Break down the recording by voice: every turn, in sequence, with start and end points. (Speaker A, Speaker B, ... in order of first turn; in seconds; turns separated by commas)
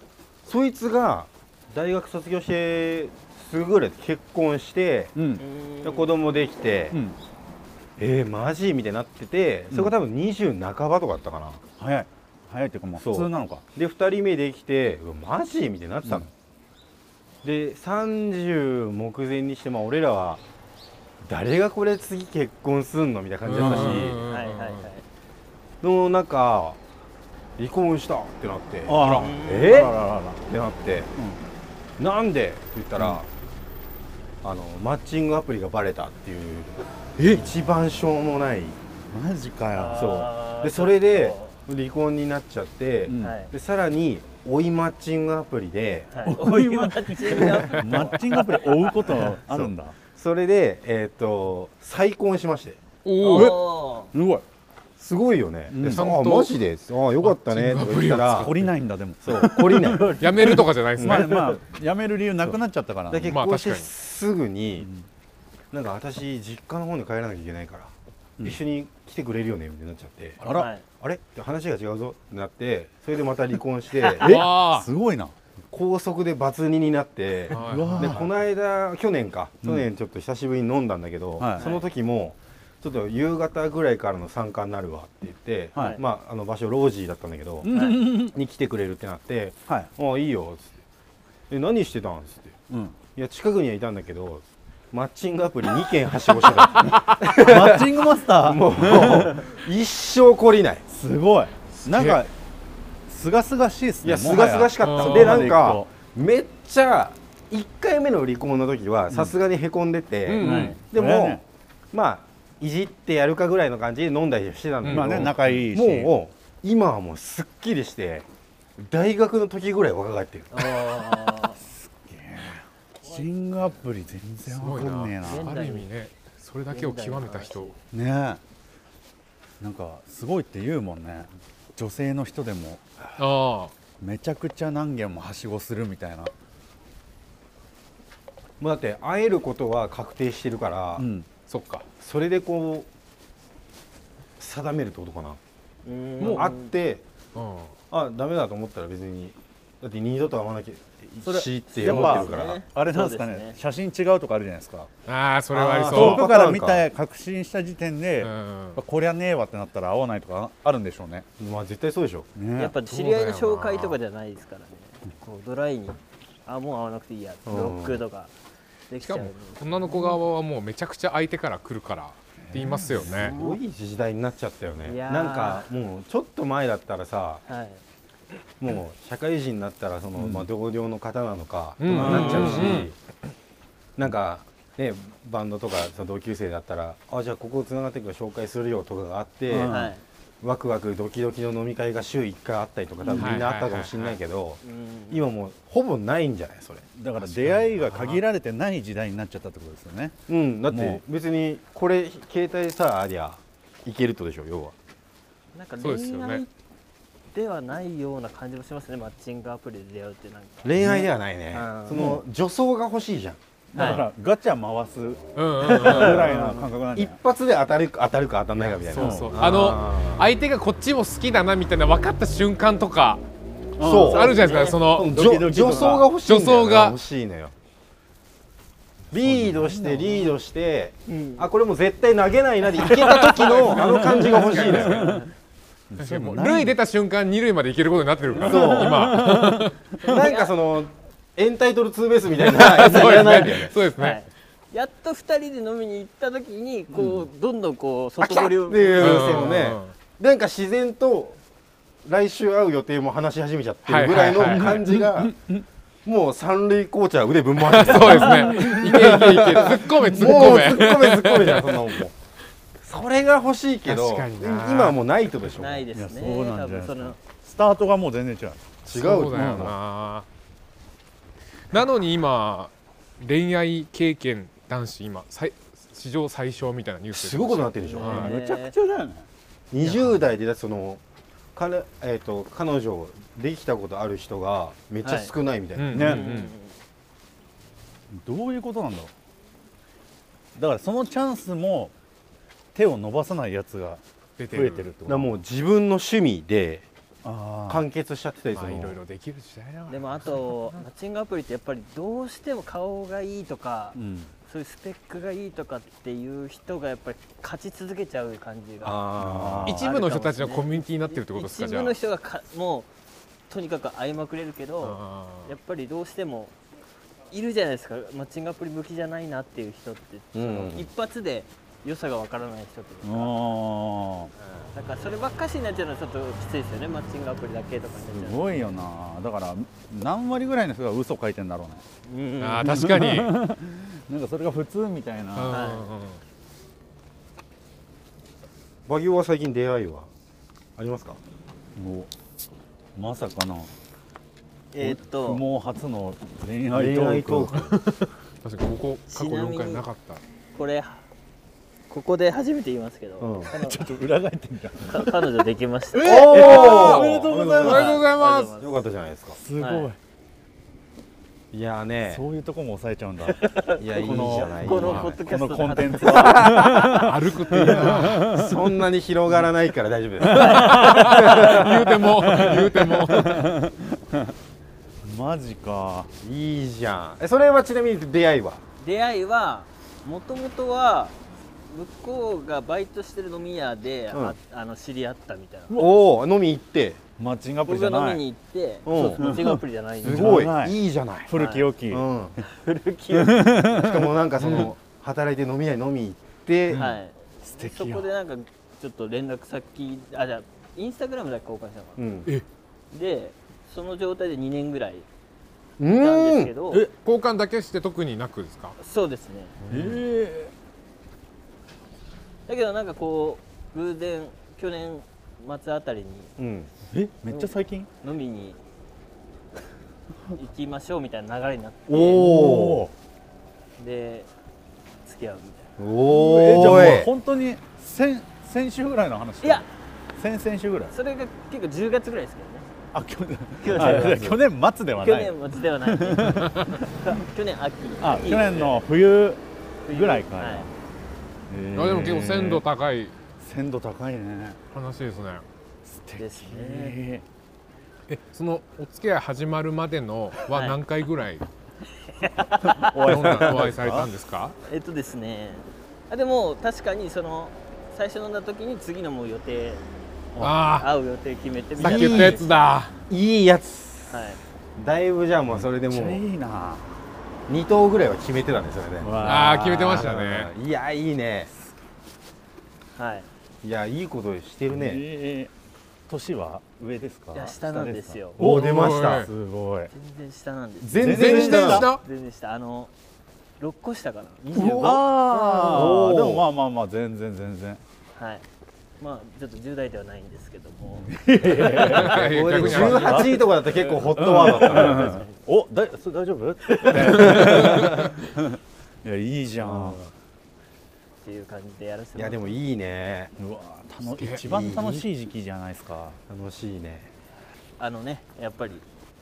Speaker A: 0.4-5.2, Speaker B: 5.1-5.4, Speaker C: 5.4-6.1, Speaker A: 5.8-7.0, Speaker B: 6.9-7.2, Speaker A: 8.0-11.6, Speaker B: 11.8-13.6, Speaker A: 12.9-16.3, Speaker A: 17.4-20.4, Speaker A: 21.2-24.2, Speaker D: 23.4-24.9, Speaker B: 23.5-24.2, Speaker C: 24.2-25.0, Speaker A: 25.8-26.8, Speaker A: 27.6-31.1, Speaker B: 28.9-30.4, Speaker C: 29.0-29.9, Speaker B: 31.1-31.4, Speaker A: 32.0-33.3, Speaker A: 34.4-38.8, Speaker B: 39.1-40.2, Speaker C: 39.7-41.6, Speaker A: 40.0-46.2, Speaker B: 43.0-43.3, Speaker C: 43.2-43.5, Speaker C: 46.1-49.1, Speaker B: 46.2-50.0, Speaker A: 49.1-52.8, Speaker D: 53.0-53.6, Speaker C: 53.2-54.1, Speaker B: 53.3-54.4, Speaker A: 55.0-58.5, Speaker B: 55.7-56.2, Speaker D: 55.8-56.6, Speaker D: 57.2-58.7, Speaker B: 58.3-63.4, Speaker A: 59.2-61.5, Speaker D: 60.2-61.5, Speaker A: 63.1-64.9, Speaker D: 63.3-63.9, Speaker B: 64.8-65.0, Speaker A: 65.7-70.4, Speaker B: 70.4-70.7, Speaker C: 70.5-70.8, Speaker A: 71.0-74.4, Speaker D: 74.2-74.9, Speaker B: 74.2-75.3, Speaker A: 75.7-90.7, Speaker B: 77.5-78.3, Speaker D: 77.5-78.2, Speaker B: 81.4-81.7, Speaker C: 81.6-81.9, Speaker B: 85.7-86.0, Speaker C: 85.8-86.0, Speaker B: 87.6-88.3, Speaker C: 87.7-88.0, Speaker A: 91.5-92.6, Speaker B: 92.7-93.0, Speaker A: 93.1-100.8, Speaker B: 97.2-99.5, Speaker B: 100.9-102.3, Speaker D: 101.8-102.2, Speaker B: 103.1-105.9, Speaker A: 104.0-118.2, Speaker D: 104.8-105.6, Speaker D: 110.2-110.8, Speaker B: 110.4-111.4, Speaker C: 110.4-110.8, Speaker D: 114.8-115.5, Speaker B: 114.8-116.1, Speaker A: 118.8-120.8, Speaker C: 120.5-121.6, Speaker B: 121.6-125.5, Speaker D: 124.5-127.7, Speaker C: 125.2-125.9, Speaker C: 126.7-127.8, Speaker B: 127.9-128.4, Speaker B: 129.6-133.1, Speaker D: 133.1-133.7, Speaker B: 134.0-136.3, Speaker A: 138.6-141.1, Speaker B: 140.9-141.3, Speaker D: 141.5-141.8, Speaker A: 142.0-142.9, Speaker A: 144.4-145.4, Speaker C: 145.8-146.7, Speaker A: 146.2-147.0, Speaker D: 146.2-146.5, Speaker D: 147.3-147.7, Speaker A: 147.9-152.6, Speaker B: 151.2-154.9, Speaker C: 151.7-153.6, Speaker D: 155.1-156.3, Speaker A: 155.5-156.8, Speaker B: 155.8-161.3, Speaker D: 158.2-158.8, Speaker A: 161.4-162.3, Speaker B: 162.3-162.8, Speaker C: 162.6-168.3, Speaker D: 162.8-164.0, Speaker A: 167.5-168.0, Speaker C: 168.9-170.1, Speaker D: 169.0-173.3, Speaker B: 172.4-173.6, Speaker A: 173.1-177.4, Speaker C: 174.8-175.7, Speaker C: 177.4-177.8, Speaker A: 178.6-182.9, Speaker B: 180.2-180.5, Speaker D: 181.8-182.9, Speaker B: 181.9-182.9, Speaker C: 182.1-182.7, Speaker A: 184.0-196.8, Speaker B: 189.5-189.9, Speaker C: 189.7-190.0, Speaker B: 193.0-193.3, Speaker D: 193.1-194.2, Speaker C: 194.6-195.3, Speaker B: 197.0-201.0, Speaker D: 197.3-198.2, Speaker A: 200.3-204.7, Speaker C: 205.5-206.5, Speaker D: 205.8-206.4, Speaker C: 207.3-212.1, Speaker A: 210.6-214.0, Speaker B: 210.8-211.1, Speaker B: 211.9-212.2, Speaker B: 213.7-217.2, Speaker C: 213.7-214.0, Speaker D: 215.3-216.3, Speaker C: 216.0-216.6, Speaker A: 216.2-220.3, Speaker D: 218.7-223.2, Speaker B: 218.9-219.4, Speaker B: 223.8-226.1, Speaker A: 223.8-227.5, Speaker D: 223.9-225.2, Speaker C: 224.0-224.8, Speaker D: 226.2-227.0, Speaker A: 229.1-235.1, Speaker B: 229.1-230.3, Speaker C: 231.1-231.5, Speaker D: 232.7-235.2, Speaker B: 233.9-235.2, Speaker C: 234.8-235.3, Speaker B: 235.9-236.8, Speaker D: 236.0-239.8, Speaker B: 238.3-239.7, Speaker A: 238.3-239.2, Speaker A: 240.0-243.7, Speaker C: 240.0-240.5, Speaker D: 242.4-244.2, Speaker C: 242.8-243.4, Speaker C: 243.9-249.7, Speaker A: 248.2-251.4, Speaker D: 249.0-249.9, Speaker A: 252.0-255.3, Speaker D: 253.9-254.9, Speaker B: 254.4-255.6, Speaker A: 256.0-262.1, Speaker D: 257.6-262.0, Speaker B: 258.3-259.4, Speaker B: 259.9-260.6, Speaker A: 262.8-265.9, Speaker D: 263.8-265.0, Speaker C: 265.6-267.2, Speaker B: 265.9-269.7, Speaker A: 268.8-269.7, Speaker D: 268.9-270.3, Speaker D: 271.7-278.3, Speaker A: 277.1-278.3, Speaker C: 277.8-278.7, Speaker B: 278.0-279.2, Speaker A: 279.7-281.0, Speaker D: 279.8-280.2, Speaker A: 281.5-286.1, Speaker C: 285.0-285.3, Speaker D: 285.7-286.5, Speaker B: 285.9-286.3, Speaker C: 285.9-286.7, Speaker B: 288.1-289.1, Speaker B: 290.6-291.9, Speaker B: 292.7-295.3, Speaker D: 294.4-294.9, Speaker A: 295.1-296.9, Speaker B: 297.2-297.9, Speaker A: 297.7-299.0, Speaker D: 298.5-300.8, Speaker C: 299.9-309.0, Speaker B: 303.9-304.3, Speaker A: 308.8-309.7, Speaker B: 309.2-309.9, Speaker D: 309.6-312.0, Speaker C: 309.7-312.9, Speaker C: 313.5-316.5, Speaker D: 314.8-315.5, Speaker C: 317.3-323.4, Speaker A: 320.3-320.9, Speaker B: 323.0-324.3, Speaker C: 324.7-328.6, Speaker B: 328.1-331.8, Speaker C: 332.1-332.9, Speaker D: 332.4-333.4, Speaker B: 332.6-335.7, Speaker D: 335.3-336.2, Speaker C: 335.5-335.9, Speaker A: 338.9-340.1, Speaker A: 340.8-341.2, Speaker B: 341.8-342.1, Speaker B: 342.9-343.7, Speaker C: 344.7-345.4, Speaker B: 344.8-347.6, Speaker A: 346.7-347.8, Speaker D: 347.5-350.2, Speaker C: 349.1-349.8, Speaker C: 350.5-351.0, Speaker C: 351.9-353.8, Speaker A: 353.2-353.5, Speaker B: 353.5-357.9, Speaker C: 354.9-358.9, Speaker A: 356.0-359.4, Speaker D: 356.3-358.6, Speaker B: 359.3-360.0, Speaker C: 359.6-359.9, Speaker A: 361.5-362.2, Speaker B: 362.0-368.7, Speaker C: 363.2-367.0, Speaker A: 363.8-365.2, Speaker A: 366.0-367.0, Speaker D: 366.8-368.3, Speaker A: 367.9-372.1, Speaker D: 370.3-373.5, Speaker C: 370.4-371.1, Speaker B: 371.2-374.3, Speaker B: 375.0-376.1, Speaker A: 376.2-378.6, Speaker C: 378.8-381.2, Speaker C: 381.7-385.8, Speaker A: 384.1-384.4, Speaker B: 385.7-386.0, Speaker A: 385.7-387.0, Speaker B: 387.2-388.2, Speaker C: 387.6-390.5, Speaker A: 388.8-391.4, Speaker B: 389.1-392.1, Speaker C: 391.3-391.7, Speaker A: 391.9-392.4, Speaker C: 392.4-393.7, Speaker B: 393.1-394.7, Speaker A: 393.6-396.9, Speaker D: 394.4-394.7, Speaker C: 396.7-402.0, Speaker B: 397.4-398.1, Speaker A: 402.0-402.3, Speaker C: 402.9-405.1, Speaker A: 405.8-406.5, Speaker C: 405.9-406.9, Speaker D: 407.0-408.8, Speaker C: 408.8-409.6, Speaker D: 409.6-410.0, Speaker B: 409.7-410.5, Speaker C: 412.5-416.3, Speaker A: 416.4-416.7, Speaker B: 416.9-417.9, Speaker C: 417.3-418.6, Speaker C: 420.3-422.3, Speaker A: 421.9-422.9, Speaker B: 422.1-422.9, Speaker C: 423.8-424.3, Speaker C: 425.0-425.7, Speaker A: 425.8-427.1, Speaker B: 426.1-430.9, Speaker C: 429.4-429.7, Speaker C: 430.9-432.7, Speaker B: 432.9-436.9, Speaker C: 433.6-434.4, Speaker A: 433.6-434.4, Speaker C: 435.0-438.8, Speaker B: 438.0-440.7, Speaker C: 439.9-440.7, Speaker B: 441.5-442.6, Speaker D: 441.7-443.1, Speaker B: 443.4-444.6, Speaker D: 444.7-445.4, Speaker B: 445.8-447.2, Speaker C: 446.2-447.0, Speaker D: 448.1-451.4, Speaker C: 450.5-450.8, Speaker C: 451.9-453.1, Speaker B: 452.6-454.1, Speaker D: 453.0-454.6, Speaker C: 454.7-459.8, Speaker D: 460.4-460.9, Speaker C: 460.8-462.6, Speaker D: 461.8-462.9, Speaker A: 461.8-462.4, Speaker A: 463.1-464.2, Speaker C: 464.1-464.4, Speaker A: 464.8-466.2, Speaker B: 465.5-466.8, Speaker A: 467.5-471.5, Speaker B: 469.0-470.1, Speaker D: 469.2-470.5, Speaker C: 472.9-473.3, Speaker A: 473.6-475.0, Speaker B: 474.7-475.5, Speaker B: 476.1-479.9, Speaker C: 477.3-478.4, Speaker A: 478.4-479.3, Speaker D: 478.4-479.3, Speaker C: 479.9-482.9, Speaker A: 480.8-481.9, Speaker B: 480.9-481.9, Speaker D: 481.1-482.0, Speaker C: 483.6-486.1, Speaker A: 484.5-485.1, Speaker B: 484.5-487.8, Speaker A: 485.7-486.4, Speaker C: 488.1-488.4, Speaker C: 489.0-491.8, Speaker B: 491.1-500.0, Speaker A: 491.6-495.2, Speaker D: 491.6-493.4, Speaker C: 494.7-495.2, Speaker C: 496.7-497.1, Speaker D: 496.9-498.1, Speaker A: 497.0-498.0, Speaker A: 499.6-500.1, Speaker C: 501.2-502.6, Speaker A: 502.1-503.3, Speaker B: 503.4-506.2, Speaker D: 504.0-504.5, Speaker A: 504.4-505.1, Speaker A: 506.3-507.1, Speaker C: 507.8-508.8